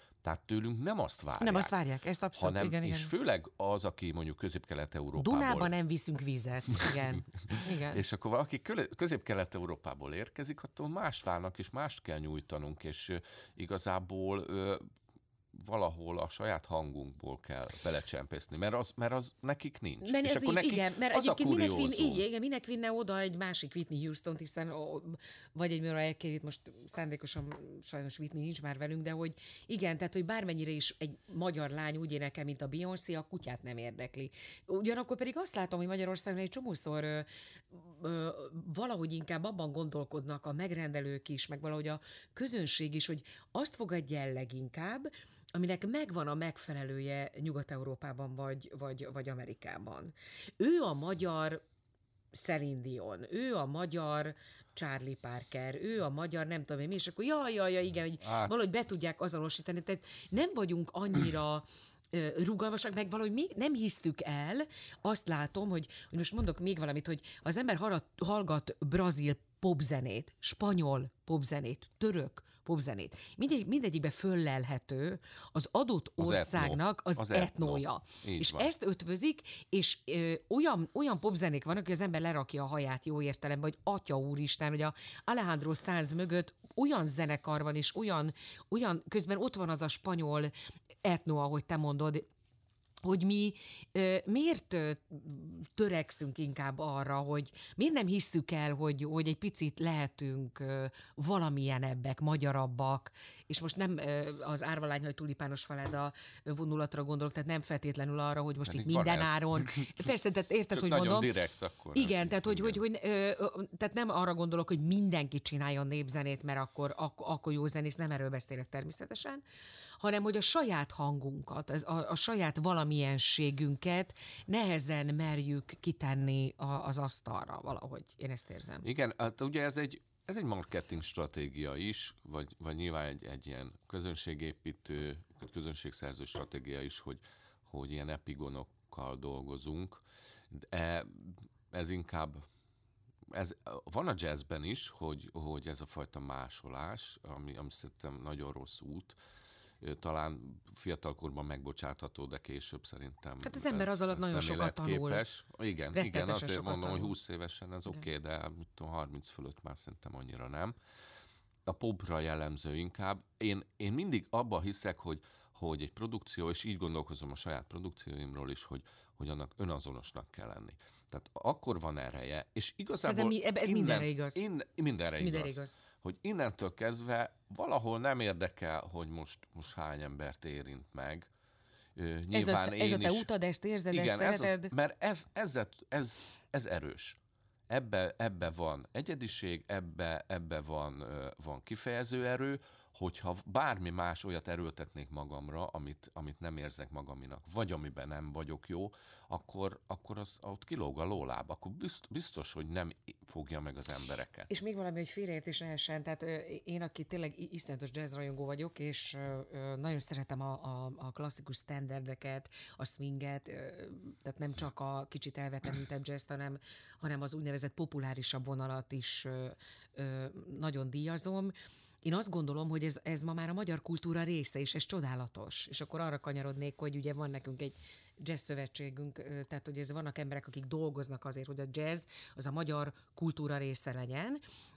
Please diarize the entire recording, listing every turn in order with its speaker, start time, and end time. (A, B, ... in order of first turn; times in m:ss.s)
0:00.2-0:01.7 A
0:01.4-0:03.1 B
0:02.4-0:05.7 A
0:05.2-0:08.0 B
0:07.5-0:14.8 A
0:15.5-0:22.2 A
0:20.0-0:51.6 B
0:52.3-1:30.5 B
0:58.2-0:58.6 A
1:16.2-1:18.7 A
1:31.0-1:32.2 B
1:33.0-1:51.4 B
1:48.6-1:50.0 A
1:50.7-1:52.8 A
1:51.9-1:59.4 B
2:00.0-2:08.9 B
2:08.8-2:22.4 A
2:23.3-2:29.2 A
2:29.8-2:40.8 A
2:33.4-2:35.2 B
2:35.9-2:37.2 B
2:41.7-3:01.3 A
2:53.0-2:54.4 B
2:55.2-2:55.8 B
3:02.0-3:03.3 A
3:02.3-3:04.7 B
3:03.9-3:07.2 A
3:07.7-3:24.5 A
3:24.5-3:54.4 B